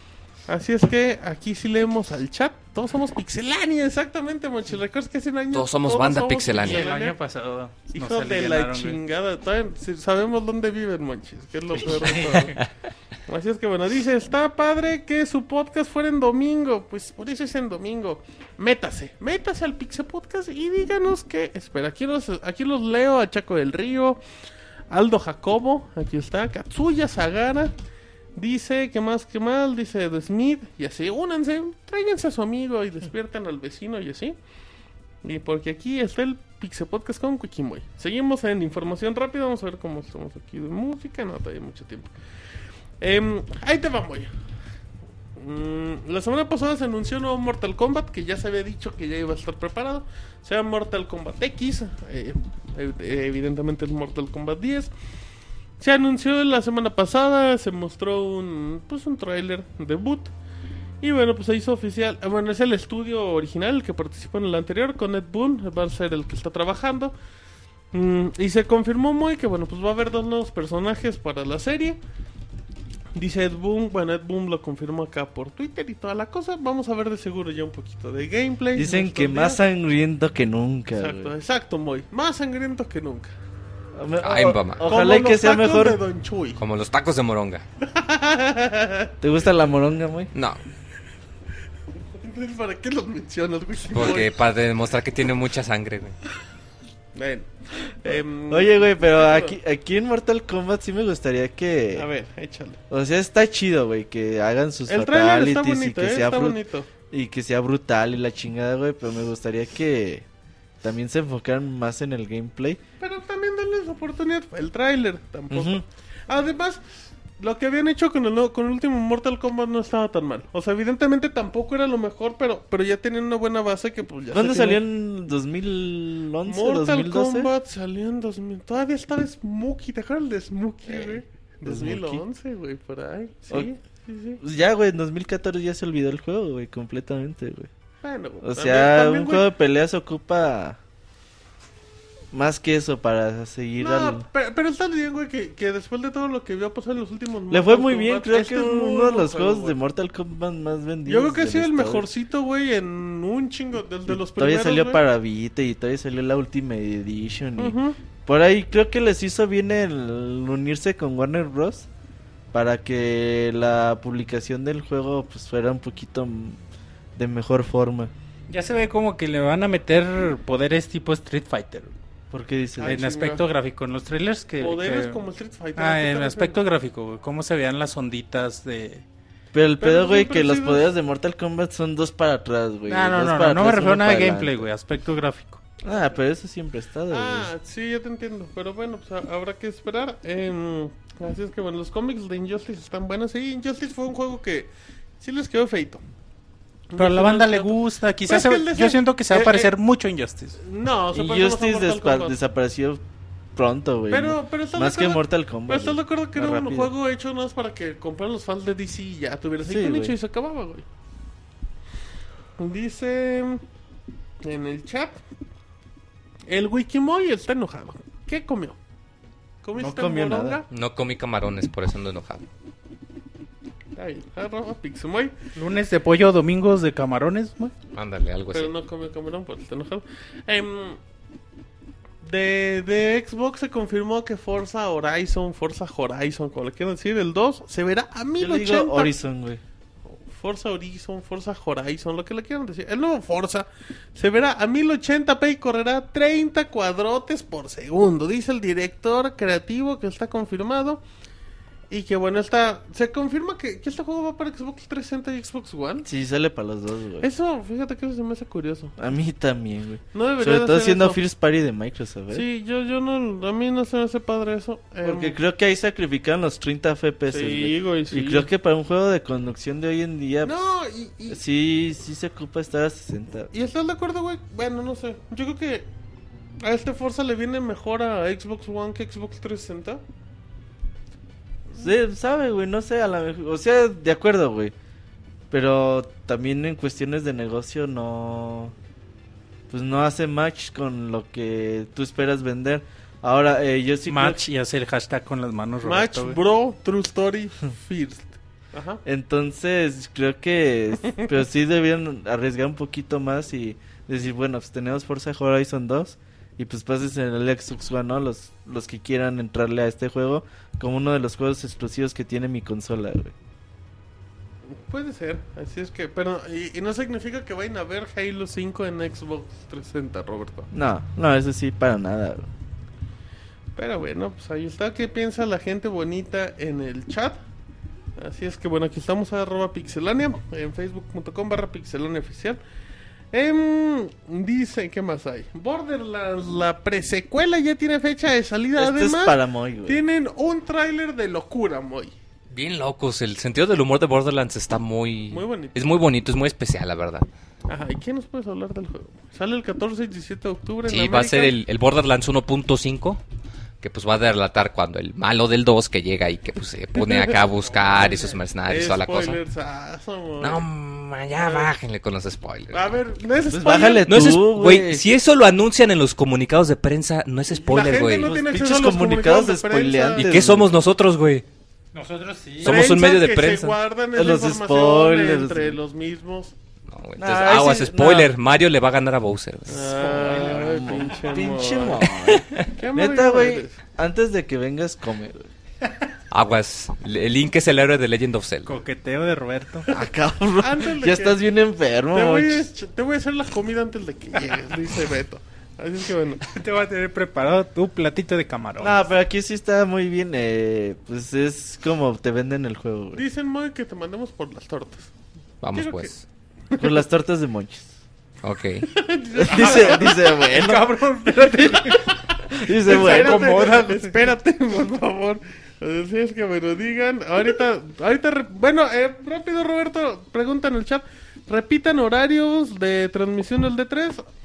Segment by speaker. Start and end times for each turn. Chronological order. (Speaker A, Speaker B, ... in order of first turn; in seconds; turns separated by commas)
Speaker A: 0.5-7.1, Speaker B: 5.5-6.9, Speaker C: 6.6-9.0, Speaker A: 7.9-12.6, Speaker C: 11.8-12.6, Speaker A: 13.3-24.2, Speaker A: 24.9-27.7, Speaker A: 28.4-34.4, Speaker A: 35.2-42.1, Speaker A: 43.0-44.3, Speaker A: 45.4-54.9, Speaker A: 55.8-60.3, Speaker A: 61.0-67.1, Speaker A: 67.9-72.0, Speaker A: 73.2-79.6, Speaker D: 78.7-81.3, Speaker A: 80.9-83.3, Speaker D: 83.9-86.0, Speaker B: 84.2-84.8, Speaker A: 84.8-86.6, Speaker B: 86.6-87.6, Speaker A: 87.8-89.1, Speaker D: 89.2-90.3, Speaker B: 90.3-90.6, Speaker A: 92.1-94.3, Speaker B: 93.9-96.1, Speaker A: 97.1-99.5, Speaker D: 98.5-102.1, Speaker A: 101.9-102.8, Speaker D: 102.9-106.6, Speaker A: 104.9-106.9, Speaker D: 107.1-110.2, Speaker D: 110.8-112.8, Speaker A: 113.0-116.8, Speaker D: 115.5-115.8, Speaker A: 117.4-124.8, Speaker D: 124.3-127.5, Speaker A: 126.5-134.4, Speaker D: 130.8-132.2, Speaker D: 134.4-137.7, Speaker A: 138.0-139.4, Speaker D: 138.4-140.8, Speaker D: 142.3-144.2, Speaker A: 143.8-149.8, Speaker D: 147.5-152.1, Speaker A: 151.1-155.0, Speaker D: 154.1-161.9, Speaker A: 157.6-158.0, Speaker D: 162.5-166.6, Speaker D: 167.2-168.1, Speaker C: 168.5-171.9, Speaker D: 172.3-173.0, Speaker A: 172.8-173.4, Speaker C: 172.8-175.2, Speaker A: 174.6-176.6, Speaker C: 175.8-179.0, Speaker D: 179.5-184.7, Speaker A: 179.8-180.9, Speaker C: 182.9-185.6, Speaker D: 185.8-187.5, Speaker A: 187.1-196.0, Speaker A: 196.9-197.8, Speaker C: 197.0-200.6, Speaker A: 198.3-199.7, Speaker A: 200.6-202.3, Speaker D: 201.1-203.0, Speaker D: 203.5-206.9, Speaker A: 204.1-210.8, Speaker D: 209.6-210.2, Speaker A: 212.6-213.6, Speaker A: 214.4-215.2, Speaker A: 216.5-218.8, Speaker A: 219.6-220.7, Speaker D: 219.8-220.6, Speaker B: 220.7-222.4, Speaker A: 223.9-225.3, Speaker C: 225.5-227.7, Speaker B: 227.9-228.7, Speaker A: 228.5-231.0, Speaker A: 232.2-239.1, Speaker D: 238.4-239.6, Speaker A: 240.1-251.0, Speaker A: 251.9-256.1, Speaker D: 256.0-257.3, Speaker A: 257.2-258.9, Speaker D: 259.0-262.4, Speaker A: 260.1-261.2, Speaker A: 262.3-265.3, Speaker D: 265.0-270.5, Speaker A: 267.3-268.4, Speaker A: 270.4-271.4, Speaker D: 271.3-273.5, Speaker A: 273.5-275.9, Speaker A: 276.6-280.0, Speaker D: 281.7-284.7, Speaker D: 285.5-288.7, Speaker D: 289.7-294.4, Speaker C: 294.1-296.4, Speaker A: 295.8-299.0, Speaker D: 299.0-313.3, Speaker A: 314.7-320.7, Speaker D: 320.7-322.5, Speaker A: 323.7-327.4, Speaker A: 328.2-332.6, Speaker A: 333.3-342.1, Speaker D: 338.8-340.0, Speaker B: 342.5-347.3, Speaker A: 345.3-345.7, Speaker A: 347.7-351.5, Speaker B: 350.8-353.2, Speaker B: 353.8-359.4, Speaker A: 357.0-357.3, Speaker C: 357.7-358.4, Speaker A: 358.7-360.6, Speaker B: 360.4-362.9, Speaker A: 361.4-361.7, Speaker A: 362.7-364.1, Speaker D: 363.5-365.0, Speaker B: 364.1-368.3, Speaker A: 367.5-370.3, Speaker D: 368.2-370.7, Speaker B: 370.1-371.4, Speaker C: 371.9-372.8, Speaker B: 372.6-373.8, Speaker A: 372.6-376.5, Speaker D: 374.1-375.8, Speaker B: 376.9-380.1, Speaker D: 377.2-378.3, Speaker A: 379.7-383.8, Speaker D: 379.8-385.5, Speaker C: 380.1-381.1, Speaker B: 386.3-388.7, Speaker C: 388.6-389.9, Speaker D: 389.9-392.7, Speaker A: 390.6-391.4, Speaker A: 392.1-396.4, Speaker C: 396.5-399.0, Speaker D: 398.8-403.2, Speaker A: 403.1-405.1, Speaker B: 405.6-406.2, Speaker A: 405.7-406.1, Speaker D: 406.8-407.9, Speaker B: 408.4-408.9, Speaker A: 408.9-410.8, Speaker D: 409.4-413.8, Speaker C: 409.5-412.1, Speaker A: 411.7-424.2, Speaker C: 412.8-414.2